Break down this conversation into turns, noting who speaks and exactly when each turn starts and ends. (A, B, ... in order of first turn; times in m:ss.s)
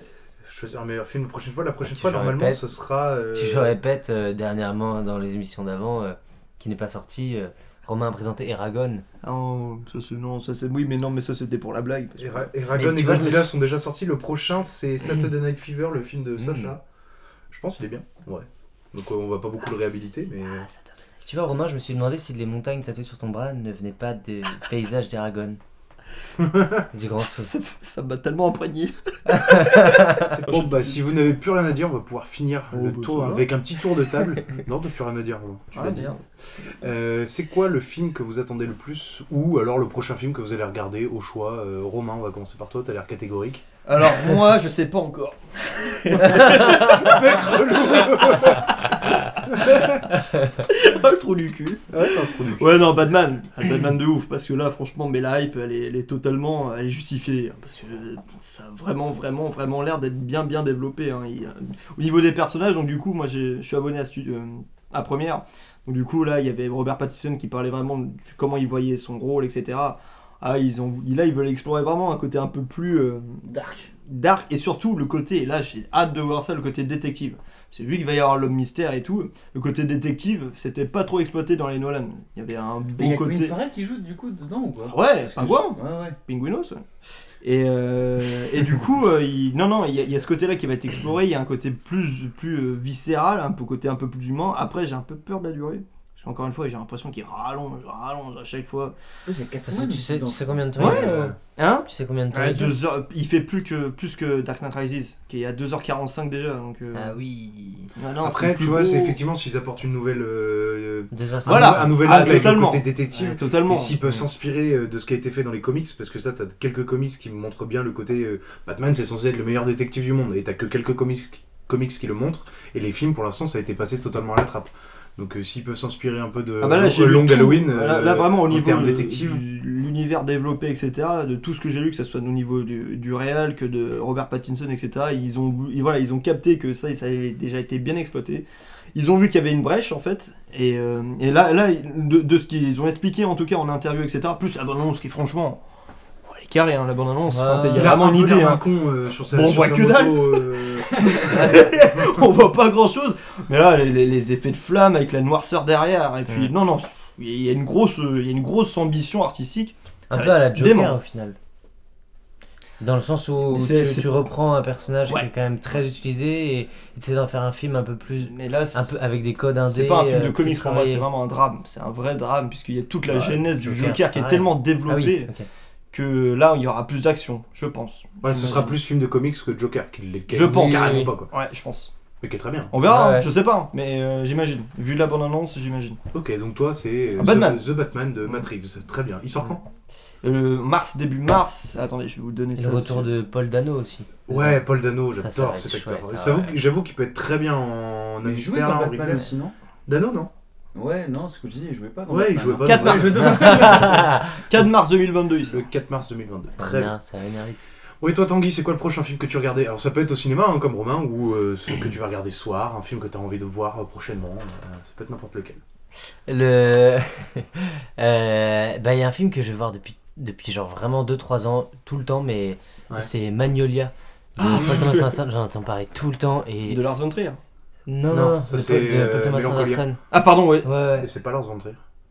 0:00.4-0:03.8 A
0:01.8-0:02.7 B
0:03.3-0:09.0 B
0:09.2-0:12.5 C
0:12.2-0:16.8 A
0:12.7-0:13.5 B
0:16.4-0:16.7 B
0:17.5-0:20.7 A
0:21.2-0:25.6 B
0:26.4-0:26.8 A
0:26.9-0:27.5 B
0:27.2-0:30.8 C
0:29.3-0:30.3 B
0:30.3-0:36.1 A
0:32.7-0:33.5 C
0:35.7-0:36.2 C
0:36.8-0:43.6 A
0:43.8-0:50.0 C
0:46.3-0:48.8 A
0:49.5-0:50.0 A
0:50.5-1:13.5 C
0:51.9-0:53.0 A
1:13.4-1:13.9 D
1:14.0-1:23.6 C
1:23.0-1:26.2 D
1:24.8-1:26.8 C
1:27.4-1:38.9 C
1:39.2-1:41.3 D
1:39.7-1:42.8 B
1:40.8-1:47.2 C
1:46.9-1:47.9 B
1:47.9-1:49.2 C
1:48.2-2:09.4 A
1:51.1-1:52.5 B
1:51.4-1:54.0 C
2:06.6-2:25.6 C
2:26.2-2:28.6 C
2:27.3-2:28.0 B
2:27.7-2:31.5 A
2:29.3-2:41.0 C
2:31.3-2:31.6 B
2:40.1-2:41.4 B
2:42.8-2:51.0 B
2:43.4-2:44.1 C
2:48.2-2:49.0 C
2:49.7-2:55.3 C
2:53.1-2:53.4 D
2:53.6-2:55.5 B
2:55.9-2:58.8 C
2:58.2-3:01.3 A
3:00.3-3:01.9 C
3:00.5-3:01.1 B
3:02.2-3:02.7 A
3:02.7-3:06.0 C
3:02.8-3:03.3 B
3:06.1-3:09.6 A
3:07.2-3:07.6 C
3:10.2-3:13.1 C
3:12.6-3:14.6 B
3:14.3-3:19.3 A
3:15.2-3:16.6 B
3:18.2-3:19.5 D
3:19.9-3:20.3 A
3:20.7-3:24.1 D
3:22.1-3:23.9 A
3:22.6-3:25.6 C
3:23.2-3:24.4 B
3:25.4-3:26.9 A
3:26.6-3:27.7 B
3:28.0-3:35.6 A
3:36.3-3:46.8 B
3:44.4-3:45.2 C
3:46.7-3:47.4 C
3:47.9-3:50.0 B
3:48.1-3:49.8 A
3:50.1-3:50.7 C
3:50.6-3:51.1 B
3:51.0-3:51.8 A